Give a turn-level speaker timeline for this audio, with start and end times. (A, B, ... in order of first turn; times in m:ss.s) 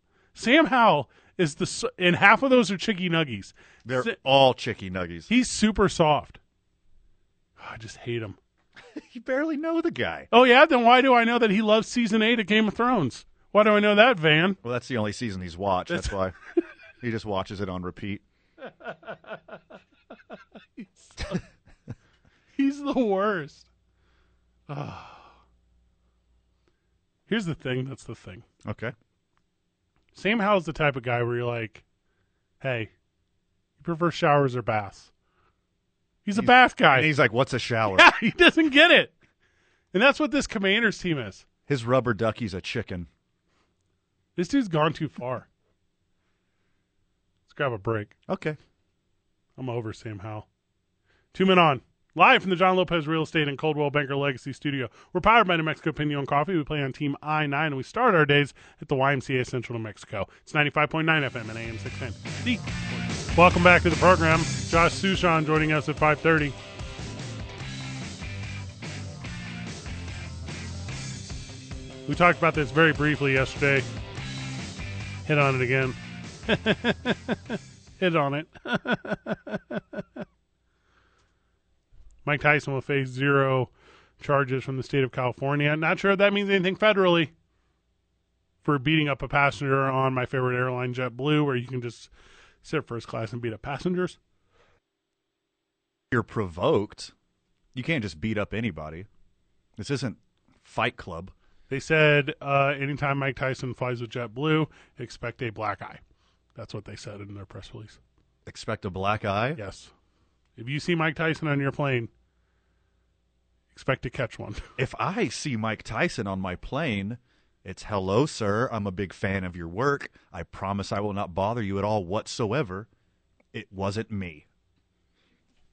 0:00.3-0:04.1 A
0:03.8-0:05.3 B
0:05.3-0:06.4 A
0:07.6-0:08.4 A
0:08.9-0:10.3 B
0:10.3-0:14.6 A
0:14.6-0:16.3 B
0:15.9-0:16.6 A
0:17.0-0:18.2 B
0:20.8-0:21.4 A
0:22.6-0:23.7 A
0:24.7-0:25.3 A
0:27.3-0:28.4 A
0:28.6-0:28.9 B
0:30.1-0:31.8 A
0:32.6-0:32.9 A
0:33.8-0:35.1 A
0:36.2-0:37.1 A
0:36.4-0:38.1 B
0:37.9-0:39.1 A
0:39.9-0:41.4 A
0:41.7-0:43.1 B
0:44.4-0:45.5 A
0:47.5-0:48.1 A
0:48.3-0:48.6 B
0:49.6-0:50.4 A
0:51.3-1:06.6 A
1:12.1-1:13.8 A
1:15.2-1:20.2 A
1:22.2-1:27.3 A
1:28.6-1:32.1 A
1:32.6-1:34.2 A
1:36.1-1:37.1 B
1:37.7-1:39.1 B
1:39.8-1:41.3 B
1:41.7-1:46.0 A
1:46.6-1:48.0 A
1:48.5-1:49.6 B
1:49.6-1:49.9 A
1:50.6-1:52.1 A
1:53.7-1:54.6 A
1:54.8-2:02.9 B
2:03.5-2:04.4 B